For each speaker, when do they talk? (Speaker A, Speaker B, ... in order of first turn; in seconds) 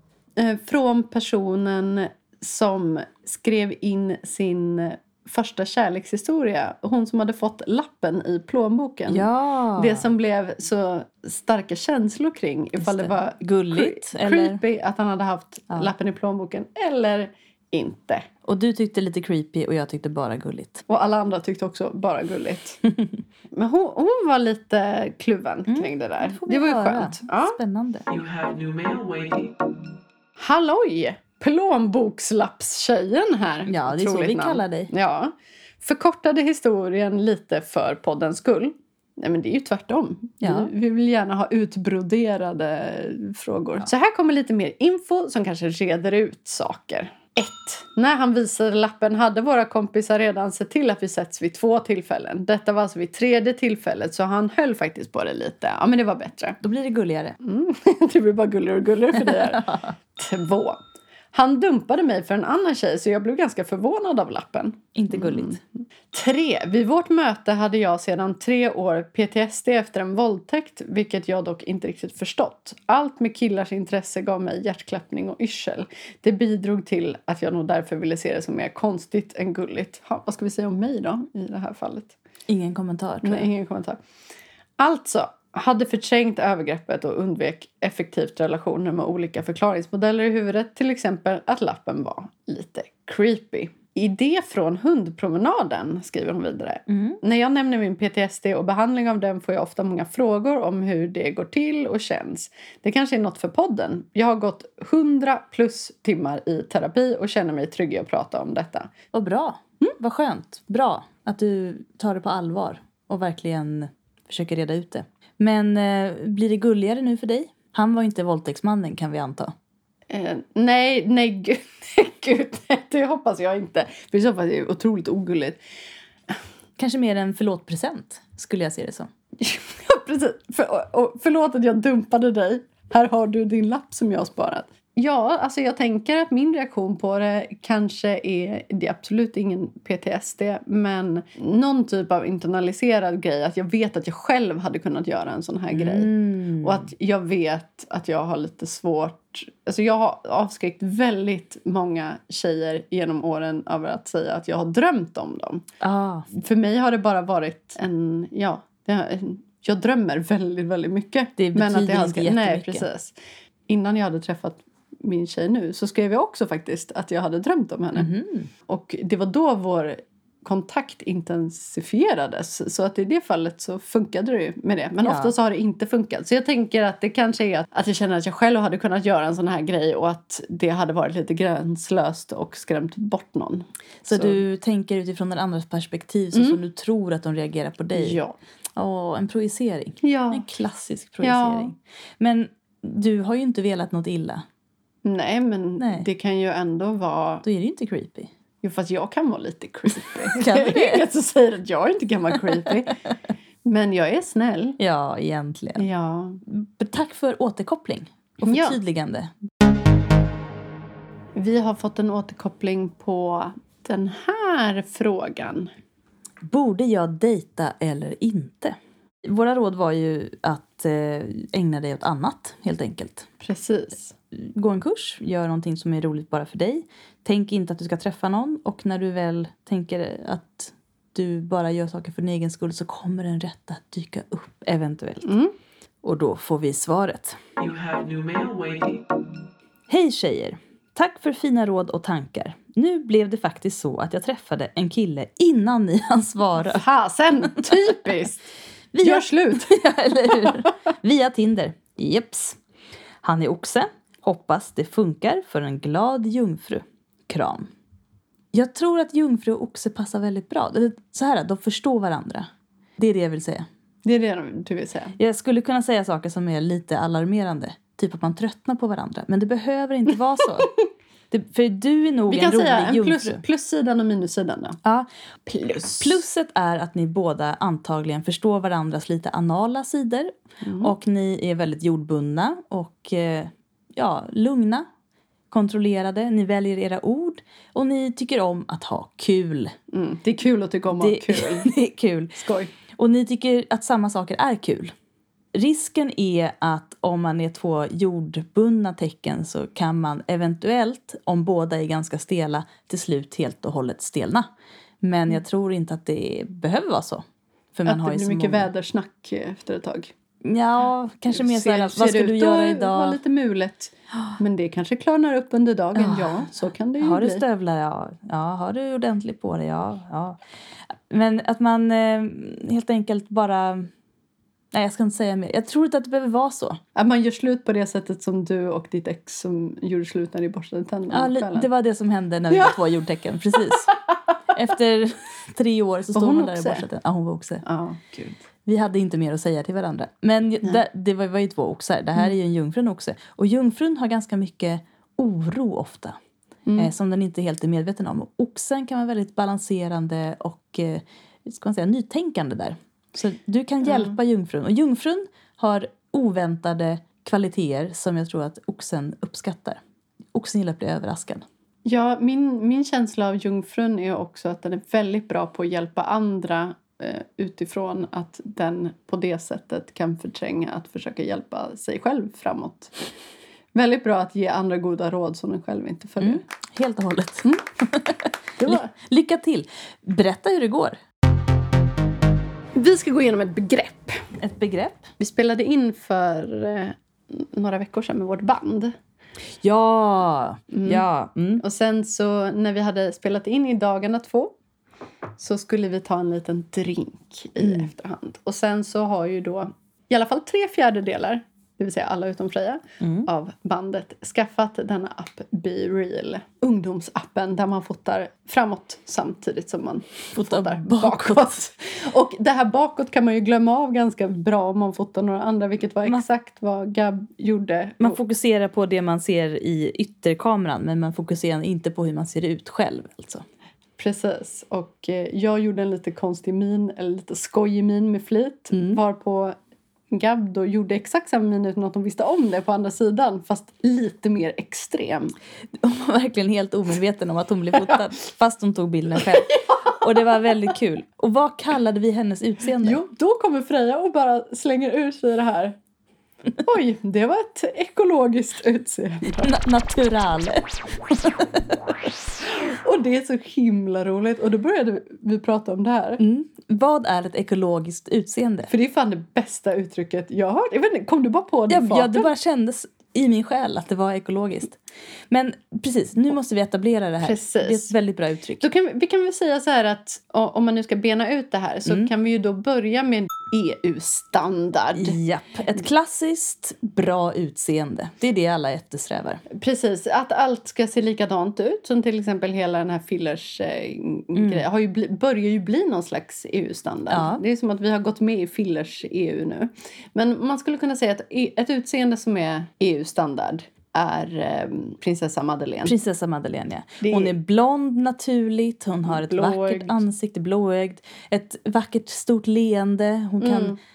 Speaker A: 0.4-18.2, 20.9-22.8, 23.5-27.6, 30.4-56.6, 57.4-60.8, 61.3-82.1, 83.2-84.0, 84.8-108.9, 120.1-125.6, 129.4-155.7, 156.3-163.1, 163.7-168.1, 168.7-184.4, 186.3-186.6, 187.9-188.3, 190.0-190.5, 191.2-191.7, 195.0-197.4, 198.6-202.9, 203.6-204.8, 205.8-206.4, 208.4-208.8, 211.3-215.7, 223.4-224.1, 235.2-235.5, 246.7-248.4, 249.0-249.7, 264.0-265.1, 272.3-274.8, 275.5-276.2, 280.6-280.9, 289.9-291.7, 292.3-292.7, 307.9-310.1, 311.3-317.4, 326.9-331.7, 332.5-332.8, 336.1-336.9, 337.6-338.4, 353.8-354.1, 361.8-372.9, 373.7-376.4, 378.6-378.9, 382.7-384.2, 385.2-388.9, 390.7-391.1, 391.6-394.5, 395.4-418.2, 424.0-429.5, 430.1-435.3, 439.3-440.4, 442.8-445.8, 446.6-449.5, 452.4-456.2, 458.7-462.3, 467.2-467.9, 468.6-475.2, 479.5-496.0, 497.0-497.3, 499.1-500.0, 503.4-503.8
Speaker B: 9.1-10.1, 12.8-14.6, 18.4-20.8, 25.7-28.1, 33.7-34.9, 40.4-40.7, 56.6-57.4, 59.2-59.9, 64.9-65.6, 82.5-83.5, 96.9-97.2, 109.1-119.5, 126.8-129.1, 145.7-146.9, 155.8-156.2, 161.4-162.8, 167.9-168.5, 175.0-175.3, 184.0-188.2, 188.8-194.4, 195.8-196.1, 197.4-198.3, 200.3-201.0, 202.4-202.9, 204.8-205.9, 206.5-209.3, 216.4-223.3, 224.3-235.3, 236.0-237.4, 239.9-246.8, 248.9-252.6, 253.2-257.7, 258.5-263.6, 265.2-270.7, 271.3-273.4, 276.0-284.9, 285.5-289.7, 291.0-292.4, 292.9-294.9, 295.5-304.4, 305.0-307.2, 307.7-308.7, 310.4-313.2, 315.9-320.4, 321.1-323.9, 324.7-326.8, 331.1-333.9, 334.5-337.6, 338.6-346.2, 346.8-359.8, 360.3-361.4, 376.2-381.0, 384.4-385.1, 389.6-391.6, 397.6-397.9, 403.0-403.3, 410.3-411.5, 418.0-423.4, 428.7-429.0, 435.8-443.0, 449.4-451.7, 456.2-458.7, 461.7-464.8, 465.3-468.7, 474.9-479.4, 484.3-484.6, 487.1-487.4, 495.8-503.8
Speaker C: 28.1-29.6, 237.6-239.1